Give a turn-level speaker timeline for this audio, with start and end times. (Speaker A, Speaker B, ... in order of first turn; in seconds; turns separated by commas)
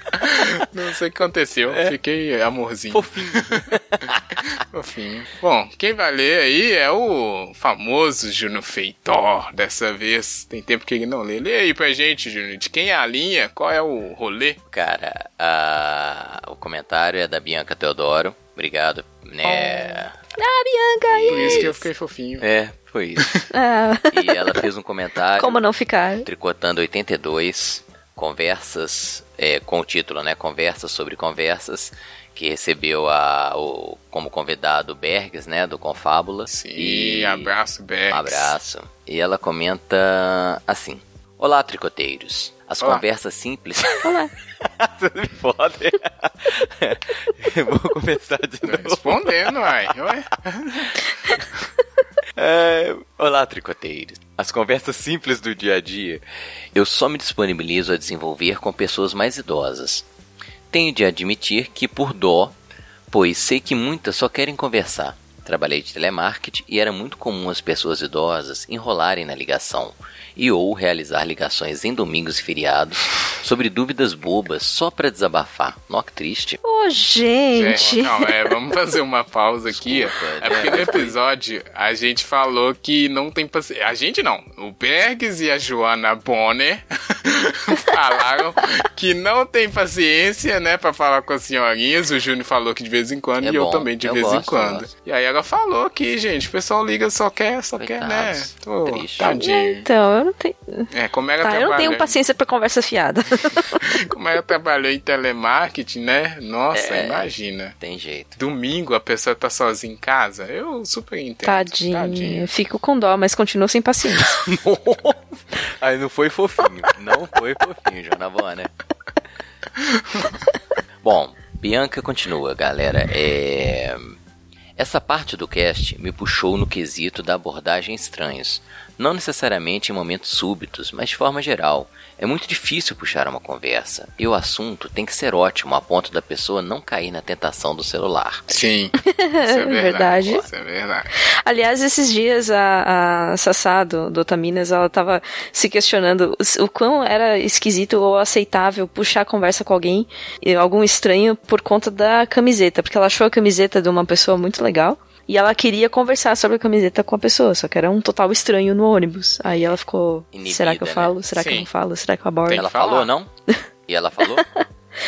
Speaker A: 0.1-3.6, Speaker B: 2.9-4.5, Speaker A: 4.6-14.6, Speaker B: 14.7-20.1, Speaker C: 19.4-21.8, Speaker B: 21.1-21.8, Speaker A: 21.3-22.4, Speaker B: 22.4-23.4, Speaker C: 23.5-24.4, Speaker B: 24.1-25.6, Speaker C: 25.4-26.2, Speaker B: 26.2-37.5, Speaker A: 36.5-38.5, Speaker B: 38.1-49.9, Speaker C: 44.0-44.3, Speaker A: 48.6-51.0, Speaker B: 52.4-56.2, Speaker B: 56.7-60.0, Speaker B: 60.7-62.5, Speaker B: 63.1-76.6, Speaker C: 76.6-78.4, Speaker A: 77.5-99.8, Speaker B: 79.7-81.2, Speaker B: 93.4-94.9, Speaker B: 97.8-99.3, Speaker C: 99.2-100.9, Speaker A: 100.9-102.2, Speaker C: 101.4-103.9, Speaker A: 103.8-107.7, Speaker B: 106.7-108.4, Speaker A: 108.4-112.5, Speaker C: 111.4-114.3, Speaker B: 114.3-118.7, Speaker B: 121.0-124.1, Speaker B: 124.8-138.6, Speaker A: 138.5-141.1, Speaker C: 139.0-140.4, Speaker C: 141.2-162.6, Speaker B: 160.3-161.2, Speaker A: 161.3-161.7, Speaker A: 162.4-163.1, Speaker B: 162.5-163.3, Speaker B: 163.9-164.4, Speaker C: 164.3-164.6